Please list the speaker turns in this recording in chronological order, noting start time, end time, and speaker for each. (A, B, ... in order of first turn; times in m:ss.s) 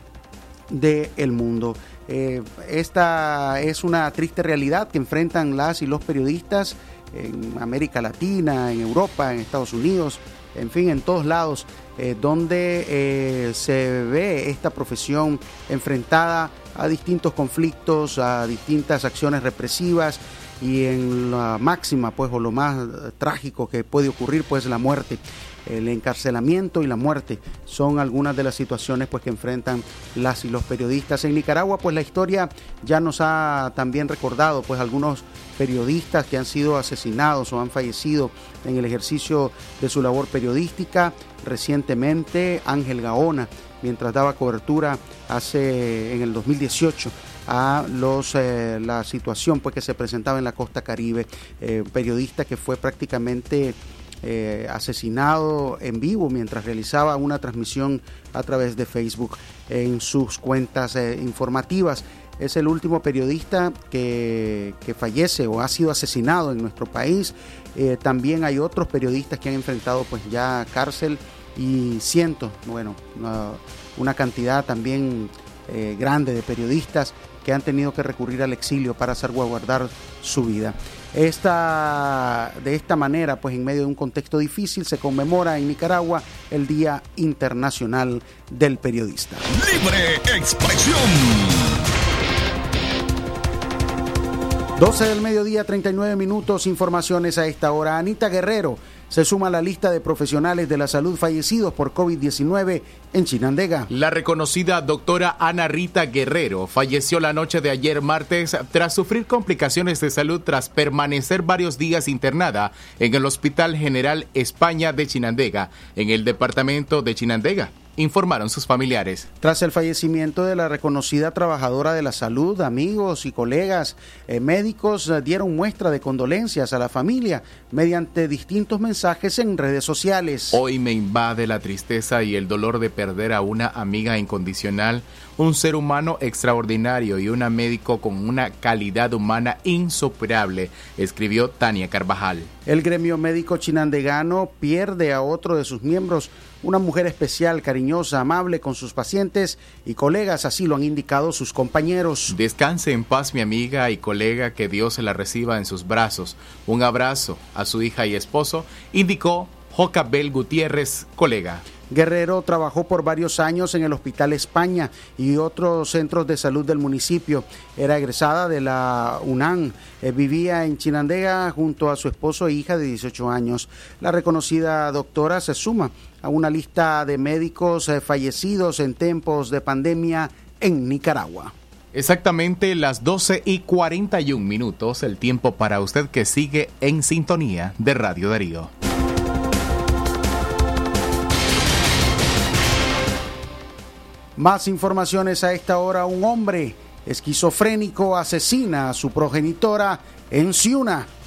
0:00.7-1:29.4 A
1:29.5-1:31.8 B
1:34.8-1:43.9 A
1:43.9-1:59.3 C
1:59.4-2:10.6 A
2:10.5-2:22.5 C
2:22.7-2:32.4 A
2:32.3-2:41.6 C
2:41.9-3:01.5 A
3:01.9-3:08.7 C
3:14.4-3:21.1 A